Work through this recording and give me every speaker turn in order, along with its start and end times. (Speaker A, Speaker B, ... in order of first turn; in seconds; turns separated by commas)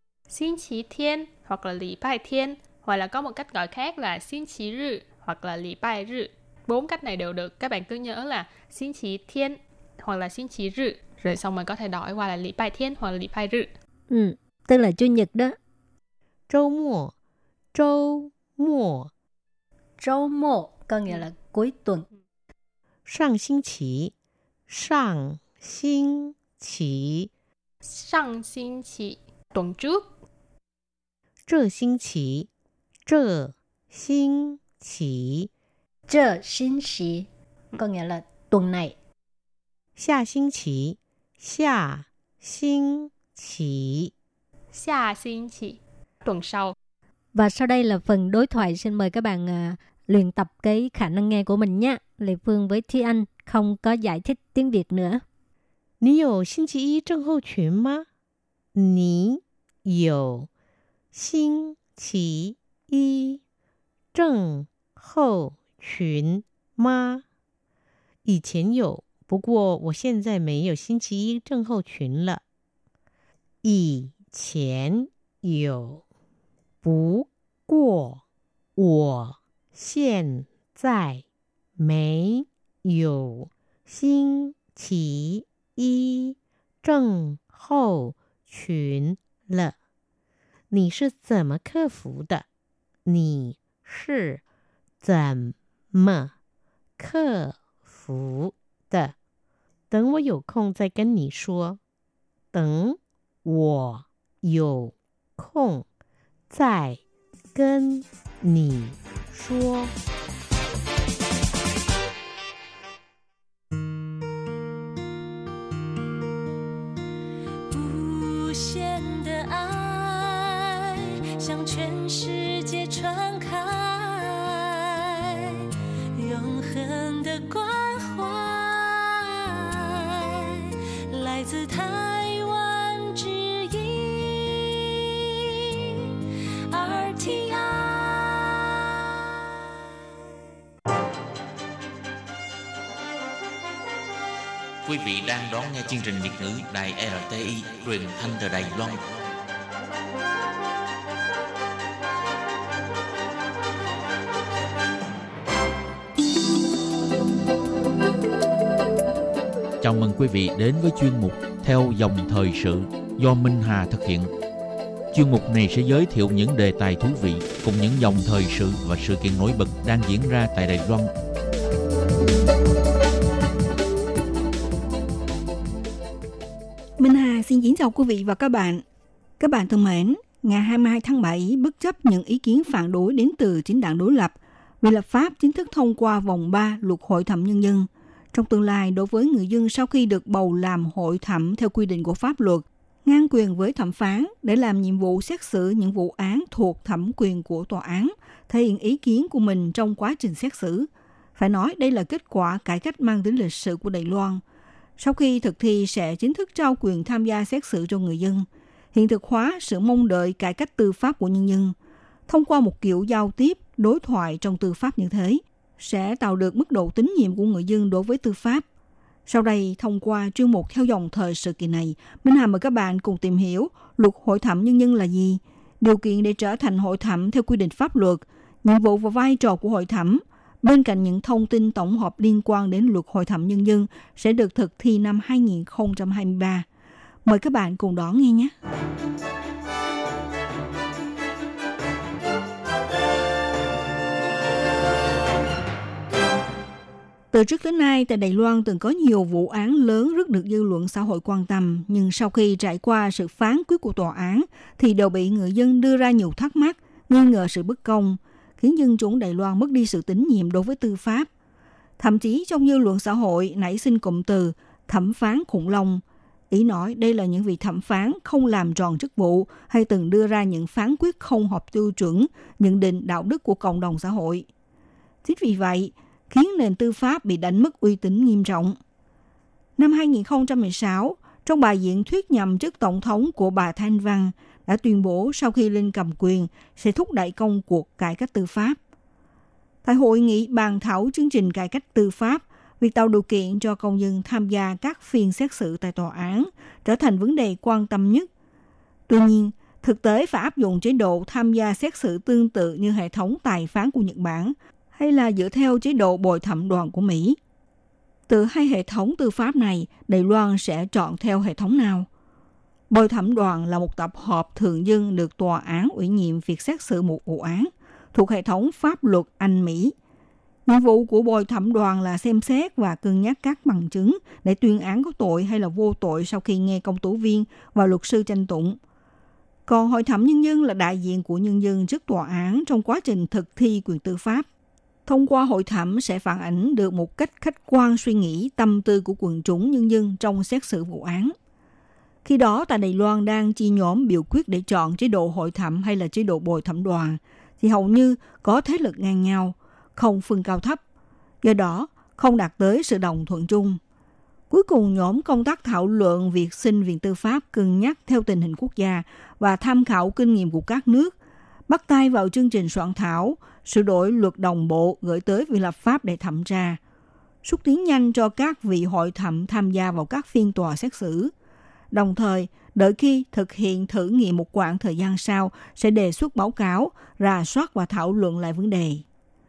Speaker A: 0.3-13.7, Speaker B: 14.1-15.6, Speaker C: 16.5-17.1, Speaker C: 17.7-19.1, Speaker B: 20.0-22.1, Speaker C: 23.1-24.1, Speaker C: 24.7-27.3, Speaker A: 27.8-30.1, Speaker C: 31.5-32.5, Speaker C: 33.0-35.5, Speaker B: 36.1-39.0, Speaker C: 40.0-44.1, Speaker A: 44.7-46.8, Speaker B: 47.4-55.2, Speaker C: 56.0-58.1, Speaker C: 58.8-60.5, Speaker C: 61.1-63.4, Speaker C: 64.1-67.2, Speaker C: 68.2-72.4, Speaker C: 73.6-76.0, Speaker C: 76.8-78.2, Speaker C: 78.8-81.2, Speaker C: 81.8-89.8, Speaker C: 90.7-92.5, Speaker C: 93.1-94.4, Speaker C: 95.0-96.3, Speaker C: 97.0-99.2, Speaker C: 99.9-101.8, Speaker C: 102.5-105.8, Speaker C: 106.5-107.0, Speaker C: 107.5-109.9, Speaker D: 117.7-136.1, Speaker D: 136.7-139.2, Speaker E: 144.8-149.2, Speaker E: 159.8-164.3, Speaker E: 165.1-171.1, Speaker F: 177.0-178.8, Speaker F: 179.4-204.4, Speaker F: 205.0-211.8, Speaker F: 212.3-218.6, Speaker F: 219.3-236.7, Speaker F: 237.2-238.5, Speaker F: 247.3-261.3, Speaker F: 262.0-274.5, Speaker F: 275.2-278.8, Speaker F: 279.8-288.8, Speaker F: 289.8-298.3, Speaker F: 299.1-307.4, Speaker F: 308.3-312.1, Speaker F: 312.9-319.9, Speaker F: 320.7-328.8, Speaker F: 329.7-334.5, Speaker F: 335.1-341.4, Speaker F: 342.2-350.8, Speaker F: 351.4-353.8, Speaker F: 354.5-361.1, Speaker F: 361.7-366.8, Speaker F: 367.4-371.3, Speaker F: 371.9-379.0